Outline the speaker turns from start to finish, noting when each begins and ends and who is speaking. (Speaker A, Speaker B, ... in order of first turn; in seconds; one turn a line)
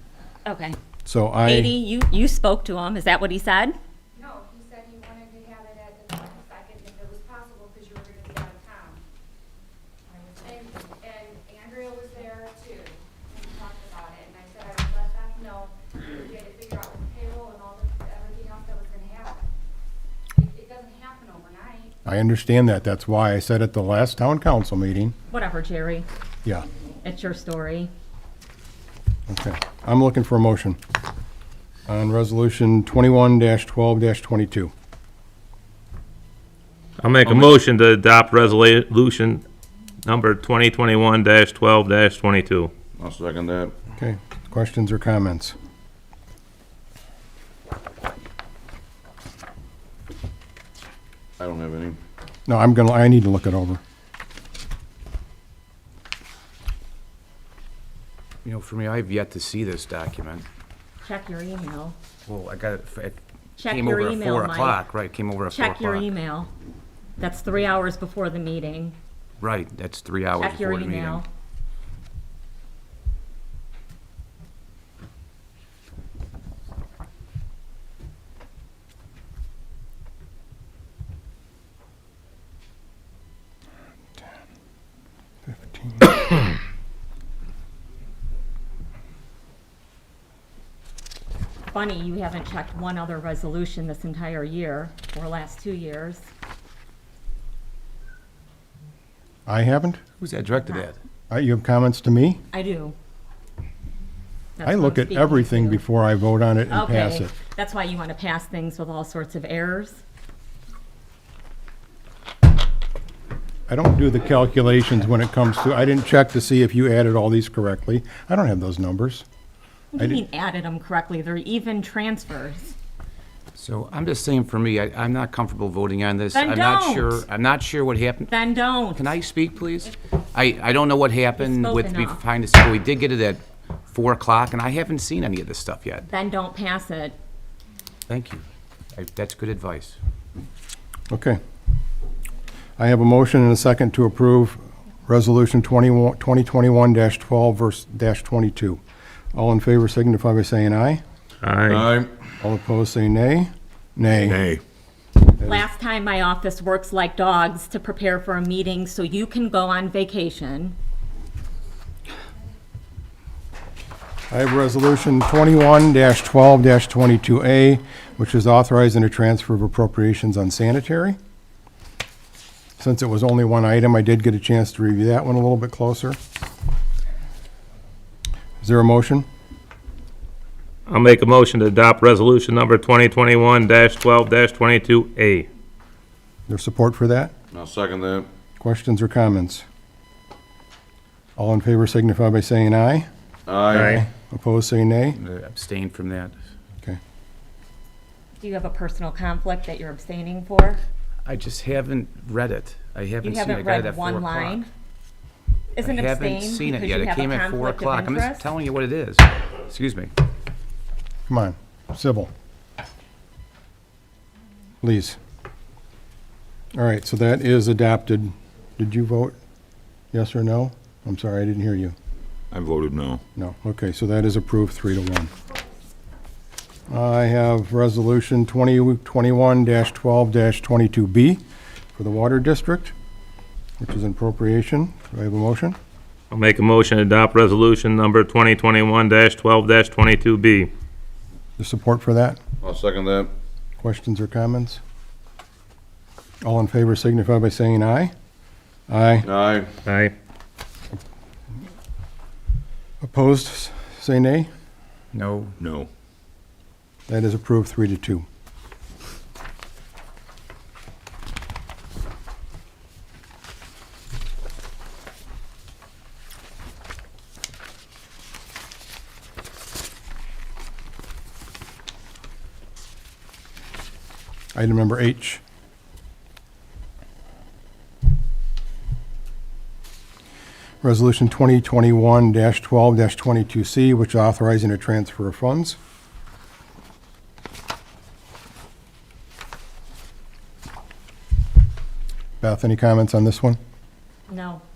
Speaker A: 0.5-0.8
Speaker B: 1.1-1.7
Speaker A: 1.4-3.8
Speaker C: 4.2-9.0
Speaker C: 10.5-15.7
Speaker C: 16.2-19.4
Speaker C: 20.4-21.9
Speaker B: 22.1-25.1
Speaker A: 25.3-26.1
Speaker A: 27.0-27.9
Speaker B: 29.3-30.8
Speaker B: 31.9-34.7
Speaker D: 37.0-39.4
Speaker D: 40.0-42.7
Speaker E: 43.0-43.8
Speaker B: 44.0-45.5
Speaker E: 51.4-52.0
Speaker B: 52.5-53.8
Speaker F: 58.5-60.5
Speaker A: 61.0-62.0
Speaker F: 62.2-66.1
Speaker A: 63.6-64.9
Speaker A: 65.5-66.5
Speaker A: 67.2-69.0
Speaker F: 69.4-71.2
Speaker A: 70.3-71.3
Speaker B: 85.5-86.1
Speaker A: 91.7-96.3
Speaker B: 99.5-100.0
Speaker F: 100.2-101.0
Speaker B: 101.3-102.4
Speaker A: 102.5-103.0
Speaker A: 104.6-105.8
Speaker B: 104.6-107.3
Speaker A: 106.7-110.0
Speaker B: 113.7-119.2
Speaker A: 119.9-122.8
Speaker F: 123.5-128.4
Speaker A: 126.3-127.2
Speaker A: 128.3-129.1
Speaker F: 128.9-136.1
Speaker A: 131.4-132.2
Speaker A: 136.1-137.2
Speaker F: 138.1-138.4
Speaker F: 138.9-140.0
Speaker B: 141.1-141.4
Speaker B: 142.8-148.8
Speaker B: 149.3-151.0
Speaker D: 151.4-151.9
Speaker E: 151.7-152.1
Speaker B: 152.4-154.5
Speaker E: 154.3-154.6
Speaker A: 155.4-160.8
Speaker B: 164.3-171.2
Speaker B: 172.8-176.2
Speaker B: 178.6-179.2
Speaker D: 180.9-185.5
Speaker B: 186.5-187.3
Speaker E: 187.5-188.2
Speaker B: 188.6-189.6
Speaker B: 191.4-193.1
Speaker E: 193.5-193.8
Speaker D: 193.7-194.0
Speaker B: 193.7-195.2
Speaker F: 195.1-196.3
Speaker A: 198.4-200.8
Speaker F: 201.2-204.6
Speaker A: 203.2-204.7
Speaker A: 205.7-208.5
Speaker F: 205.8-210.1
Speaker B: 211.3-212.3
Speaker B: 214.8-215.2
Speaker B: 216.7-219.3
Speaker B: 220.1-221.9
Speaker E: 222.5-223.2
Speaker B: 223.3-225.3
Speaker B: 226.9-231.4
Speaker B: 231.9-232.9
Speaker B: 233.8-235.8
Speaker D: 236.3-240.7
Speaker B: 241.6-242.4
Speaker E: 242.6-243.3
Speaker B: 243.8-244.8
Speaker B: 246.4-248.1
Speaker B: 248.9-249.2
Speaker E: 249.2-249.6
Speaker D: 249.8-250.1
Speaker B: 253.0-254.5
Speaker F: 255.1-255.5
Speaker E: 255.6-255.9
Speaker B: 257.1-258.2
Speaker B: 274.6-275.4
Speaker B: 280.8-285.8
Speaker B: 292.4-293.6
Speaker A: 294.3-294.6